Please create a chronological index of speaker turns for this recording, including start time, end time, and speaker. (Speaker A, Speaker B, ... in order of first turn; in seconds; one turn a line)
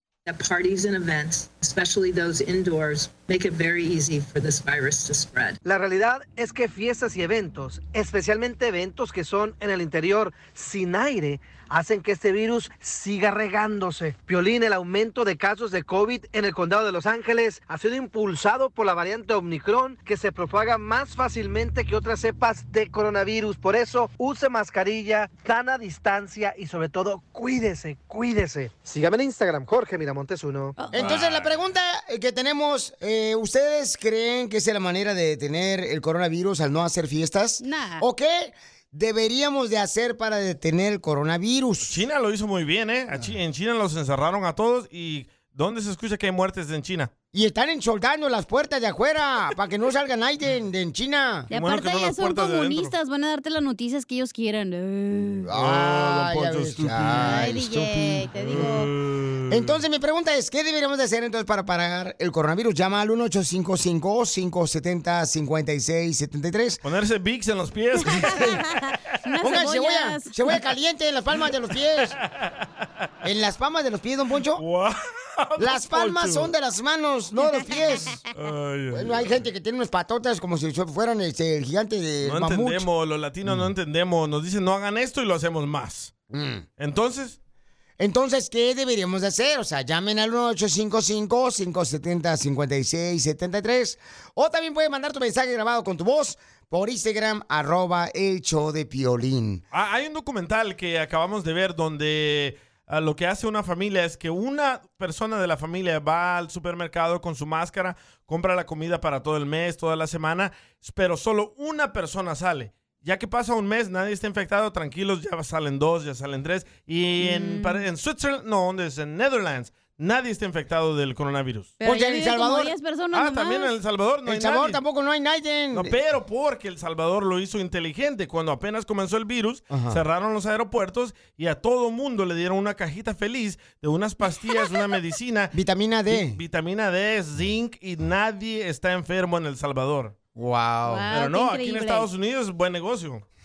Speaker A: 0.3-5.6
Speaker B: 5.6-30.8
Speaker C: 30.8-31.1
Speaker D: 30.9-31.6
Speaker E: 30.9-42.0
Speaker C: 37.6-38.0
Speaker D: 41.9-47.1
Speaker E: 47.3-51.5
Speaker D: 51.5-53.0
Speaker C: 51.5-55.5
Speaker E: 55.5-58.9
Speaker D: 55.5-57.6
Speaker C: 57.2-58.9
Speaker D: 58.4-59.8
Speaker E: 59.5-66.8
Speaker D: 66.8-68.6
Speaker C: 68.2-70.5
Speaker E: 69.4-72.2
Speaker E: 73.2-74.6
Speaker D: 74.6-76.5
Speaker E: 75.6-78.2
Speaker D: 78.3-79.3
Speaker E: 78.9-82.9
Speaker D: 82.2-86.1
Speaker E: 86.3-86.7
Speaker D: 86.8-87.4
Speaker E: 88.0-99.6
Speaker D: 99.7-121.8
Speaker C: 117.2-117.8
Speaker C: 121.8-123.7
Speaker E: 121.8-122.7
Speaker D: 123.1-124.8
Speaker E: 124.3-126.0
Speaker D: 125.7-135.6
Speaker E: 129.7-130.0
Speaker E: 135.5-136.4
Speaker D: 136.1-140.2
Speaker E: 140.3-141.1
Speaker C: 140.9-142.1
Speaker D: 141.1-143.2